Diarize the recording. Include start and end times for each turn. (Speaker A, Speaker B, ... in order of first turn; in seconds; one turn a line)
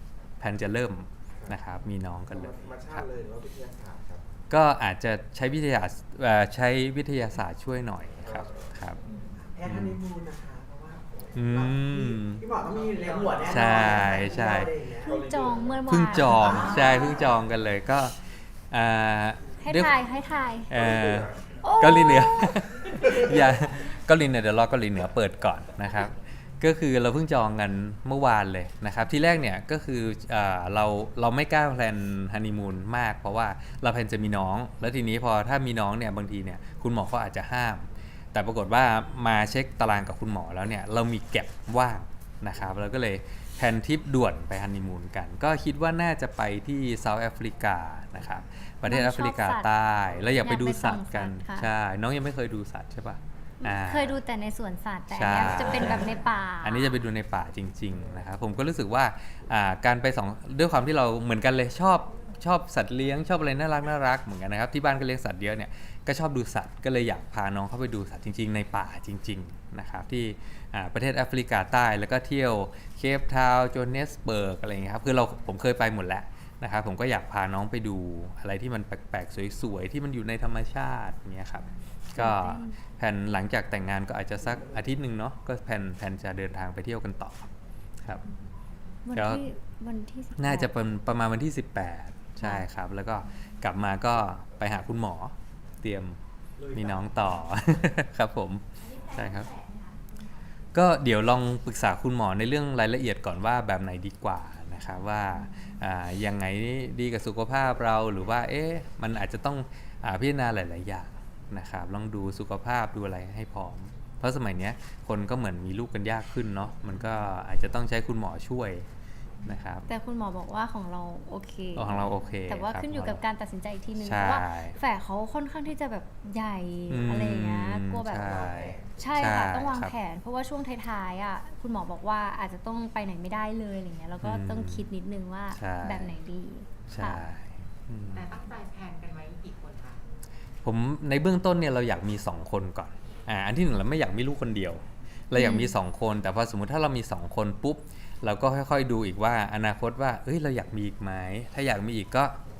Speaker A: 0.4-3.0
Speaker B: 2.3-4.2
Speaker A: 4.5-9.0
Speaker B: 8.2-8.7
Speaker C: 9.0-9.3
Speaker D: 9.3-15.2
Speaker A: 9.6-10.0
Speaker A: 11.3-12.4
Speaker C: 12.7-14.2
Speaker A: 13.4-14.7
Speaker B: 15.0-15.8
Speaker E: 15.0-17.1
Speaker A: 15.9-19.9
Speaker C: 16.5-17.0
Speaker E: 19.6-20.7
Speaker A: 20.7-54.2
Speaker B: 20.7-21.4
Speaker E: 21.6-22.7
Speaker B: 22.9-23.5
Speaker E: 48.9-49.7
Speaker E: 50.4-51.7
Speaker E: 53.6-57.0
Speaker A: 55.1-87.5
Speaker E: 82.2-82.8
Speaker B: 84.4-84.8
Speaker E: 89.0-90.7
Speaker A: 89.2-89.4
Speaker A: 90.4-96.2
Speaker E: 92.4-92.6
Speaker D: 96.6-97.1
Speaker A: 96.7-99.5
Speaker A: 100.7-118.8
Speaker A: 119.4-119.8
Speaker E: 119.9-128.4
Speaker A: 121.7-123.2
Speaker A: 124.0-124.8
Speaker A: 126.9-129.9
Speaker D: 128.1-128.8
Speaker E: 129.0-137.2
Speaker A: 134.2-134.9
Speaker A: 135.5-136.1
Speaker A: 136.9-138.3
Speaker C: 138.1-140.0
Speaker A: 140.6-152.4
Speaker E: 145.3-145.7